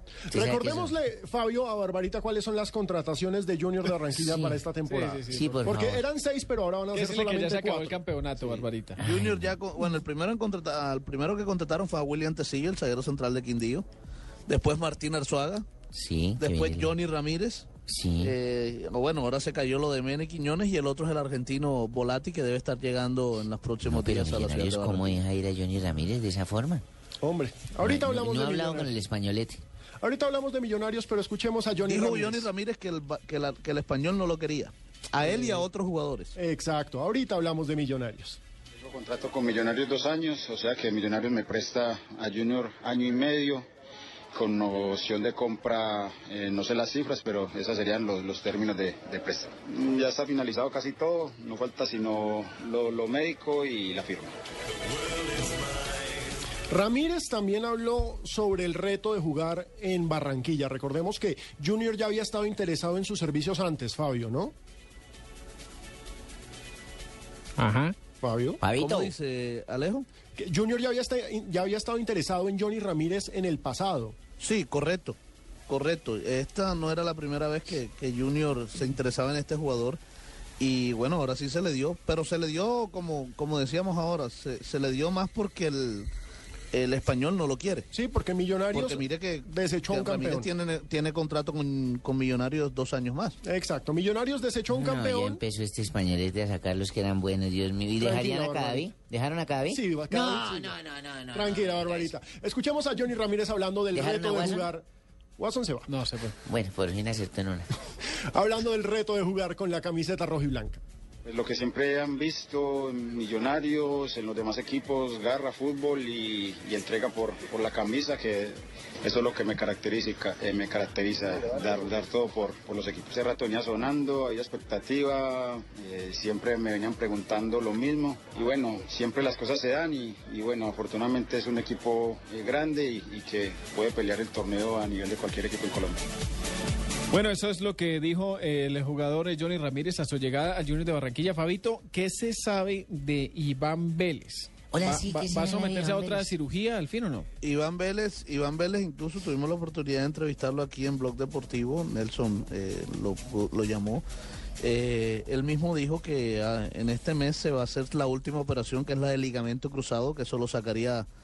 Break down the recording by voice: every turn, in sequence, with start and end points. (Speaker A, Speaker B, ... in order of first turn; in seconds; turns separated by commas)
Speaker A: 0.3-8.0, Speaker B: 0.3-0.9, Speaker B: 4.1-4.6, Speaker C: 4.8-5.8, Speaker B: 5.3-6.0, Speaker C: 6.9-9.0, Speaker D: 8.4-13.9, Speaker B: 9.0-9.6, Speaker D: 14.5-15.7, Speaker B: 15.9-16.9, Speaker D: 16.4-25.2, Speaker B: 17.9-18.3, Speaker B: 23.8-26.8, Speaker A: 27.2-29.0, Speaker B: 27.8-29.6, Speaker A: 30.0-32.5, Speaker D: 31.9-36.4, Speaker A: 35.2-35.7, Speaker A: 36.4-38.4, Speaker E: 38.8-43.6, Speaker E: 44.3-54.4, Speaker A: 56.7-64.5, Speaker C: 67.6-68.0, Speaker A: 68.2-68.6, Speaker B: 68.6-69.1, Speaker D: 68.8-70.1, Speaker A: 70.4-74.2, Speaker D: 74.4-75.2, Speaker D: 75.7-80.0, Speaker D: 80.6-86.1, Speaker D: 86.7-87.9, Speaker A: 87.9-90.5, Speaker D: 88.7-93.4, Speaker A: 93.4-95.4, Speaker B: 94.7-102.1, Speaker A: 98.0-98.9, Speaker A: 99.7-100.8, Speaker A: 101.3-104.9, Speaker B: 103.9-104.7, Speaker A: 105.4-105.9, Speaker C: 105.9-106.3, Speaker B: 106.4-107.7, Speaker A: 108.3-110.8, Speaker E: 111.3-136.0, Speaker C: 137.1-147.3, Speaker B: 144.7-146.3, Speaker D: 147.4-154.1, Speaker D: 154.6-161.1